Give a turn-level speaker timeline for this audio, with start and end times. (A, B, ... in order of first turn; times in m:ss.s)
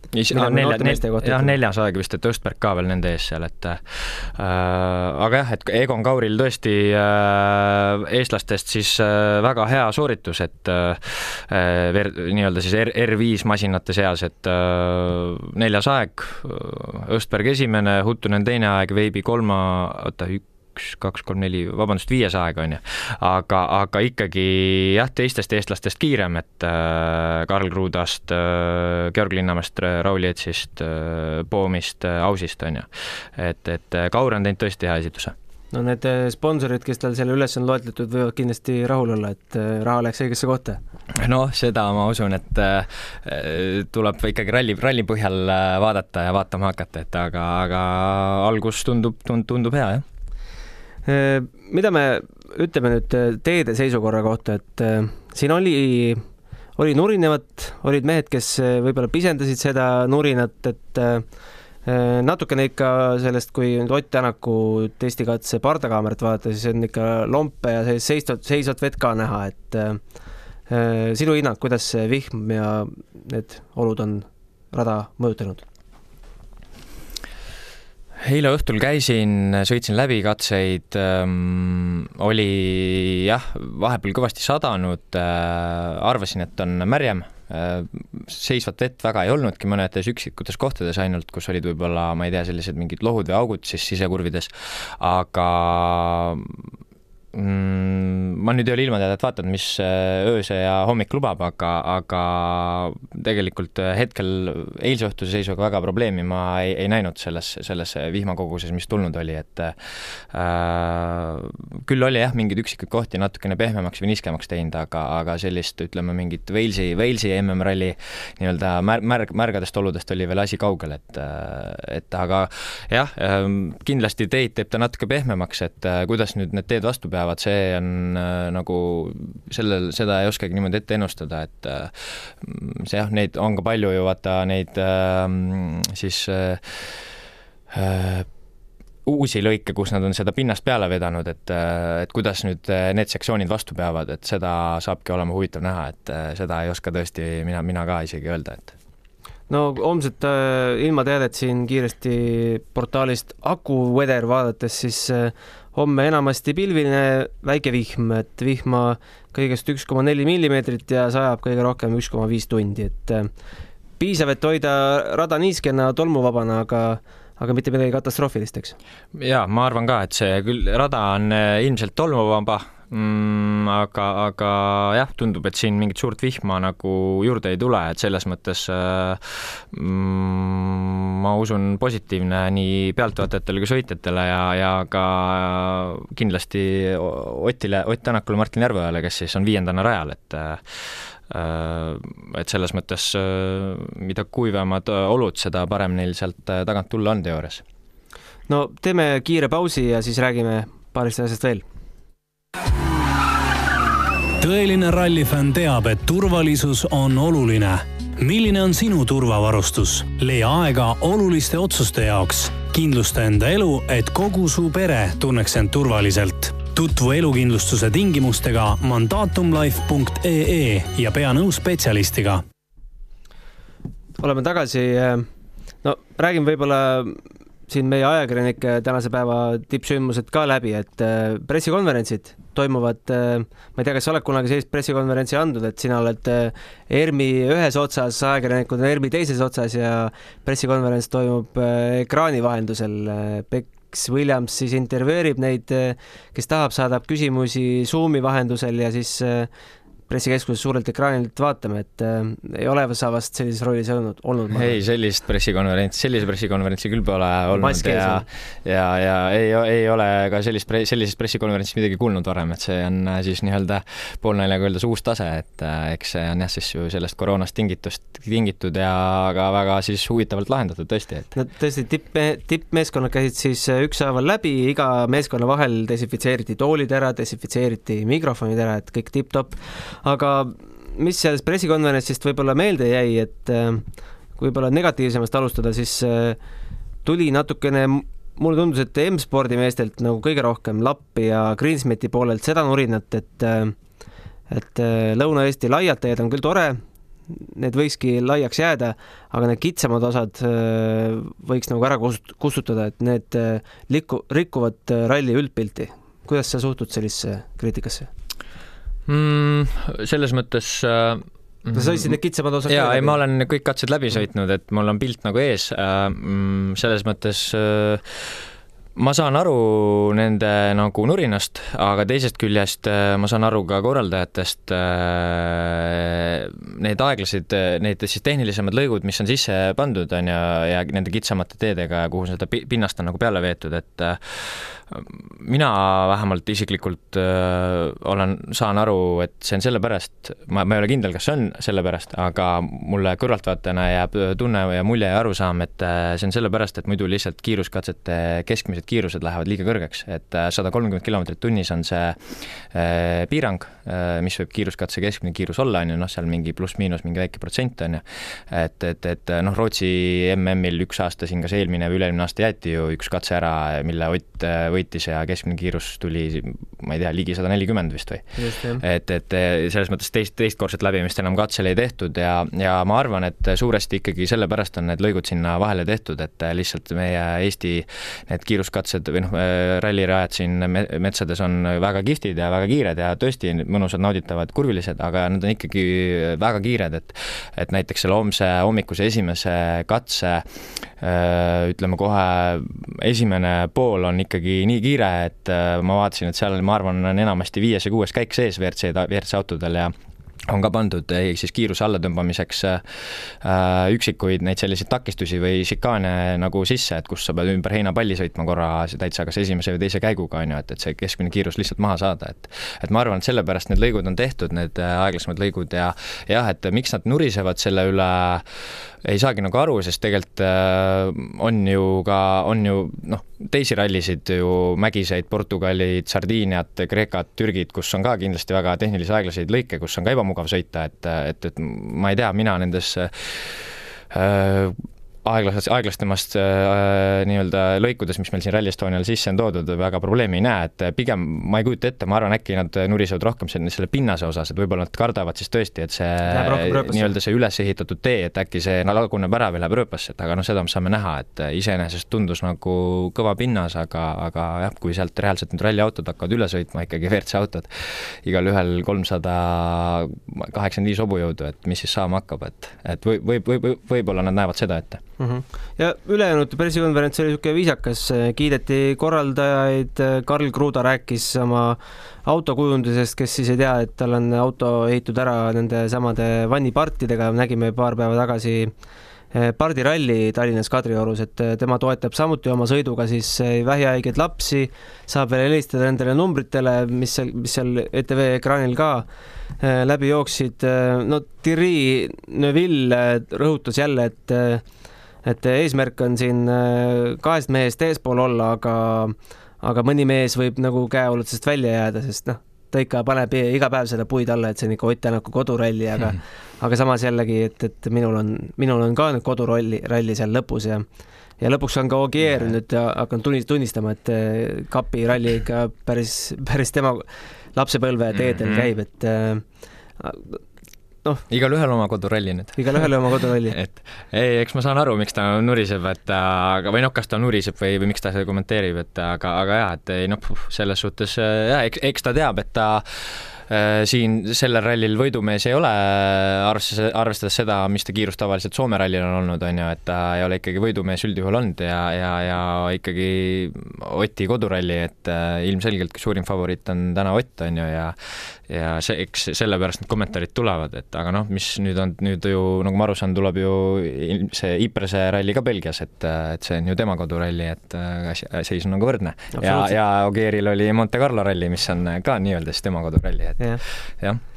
0:00.1-0:35.4 A
0:00.3-0:01.6 B
0:35.7-0:40.8 B
0:41.2-0:50.0 A
0:51.0-0:56.2 B
0:56.8-1:01.2 B
1:01.8-1:10.0 B
1:10.7-1:15.6 B
1:18.2-1:36.6 A
1:37.3-2:17.1 A
2:17.7-2:18.3 A
2:19.0-2:28.7 A
2:29.5-2:43.3 B
2:44.0-2:48.8 B
2:49.1-3:17.6 A
3:18.5-3:21.6 B
3:24.4-3:42.4 C
3:44.2-3:45.3 B
3:45.8-4:09.5 B
4:10.1-4:14.8 B
4:14.5-4:31.3 A
4:17.5-4:18.2 B
4:31.4-4:43.8 B
4:44.4-4:46.4 B
4:47.0-4:53.7 B
4:54.5-4:56.8 B
4:57.3-5:08.1 B
5:09.1-5:12.1 A
5:11.7-5:13.2 B
5:12.6-5:18.4 A
5:19.0-6:39.9 A
6:08.4-6:08.8 B
6:40.5-6:58.4 A
6:59.0-7:45.0 A
7:26.2-7:27.1 B
7:45.2-7:58.7 B
7:59.3-8:09.1 B
8:09.6-8:14.6 B
8:15.2-8:30.8 B
8:31.4-8:39.4 B
8:38.1-8:38.7 A
8:40.0-8:40.4 B
8:41.3-8:42.9 A
8:42.6-8:43.6 B
8:43.5-9:23.5 A
9:19.4-9:19.8 B